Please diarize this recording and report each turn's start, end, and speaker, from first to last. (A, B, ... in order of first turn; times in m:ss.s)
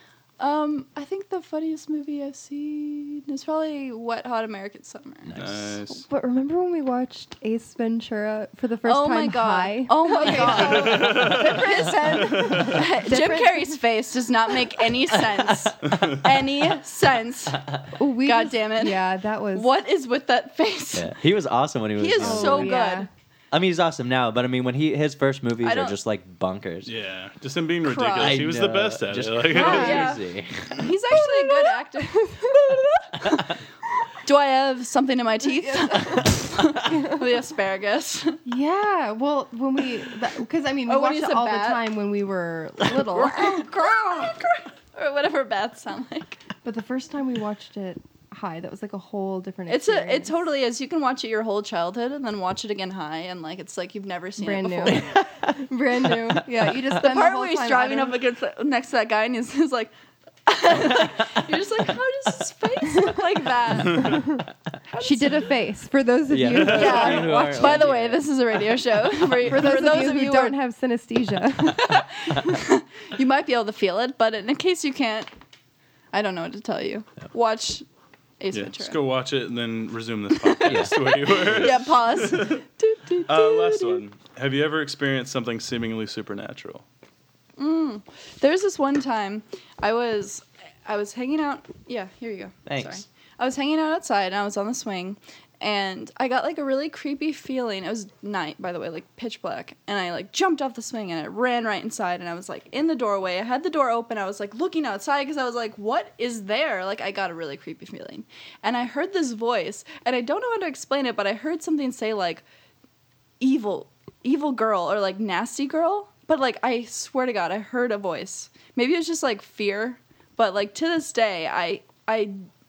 0:00.4-0:05.4 A
0:05.3-0:05.7 B
0:05.3-0:06.0 C
0:06.1-0:13.8 D
0:08.8-0:17.7 A
0:10.3-0:12.8 C
0:15.9-0:16.2 C
0:18.0-0:19.7 D
0:18.2-0:19.0 A
0:19.5-0:21.1 A
0:20.9-0:22.8 B
0:22.0-0:23.1 A
0:22.2-0:23.1 D
0:23.5-0:26.9 B
0:25.6-0:26.0 A
0:26.9-0:30.0 C
0:27.8-0:28.5 A
0:28.1-0:30.8 B
0:29.5-0:32.6 A
0:29.5-0:30.2 D
0:31.1-0:33.0 D
0:33.2-0:33.5 A
0:34.2-0:38.4 A
0:35.6-0:36.3 D
0:36.9-0:37.2 D
0:38.5-0:43.7 D
0:40.9-0:41.9 A
0:43.0-0:46.4 A
0:46.6-0:50.4 D
0:49.7-0:55.1 A
0:54.4-0:58.2 D
0:54.9-0:55.3 B
0:57.0-0:59.9 A
1:00.5-1:04.3 A
1:04.0-1:04.4 D
1:04.9-1:05.5 A
1:05.0-1:07.7 D
1:06.3-1:08.2 B
1:06.6-1:10.6 A
1:06.6-1:07.0 C
1:09.4-1:12.0 D
1:11.8-1:15.3 A
1:16.1-1:17.8 A
1:18.4-1:19.0 A
1:18.5-1:22.6 C
1:20.4-1:24.0 A
1:20.6-1:21.7 B
1:23.3-1:26.8 C
1:27.6-1:52.4 A
1:32.7-1:33.0 B
1:53.4-2:02.5 A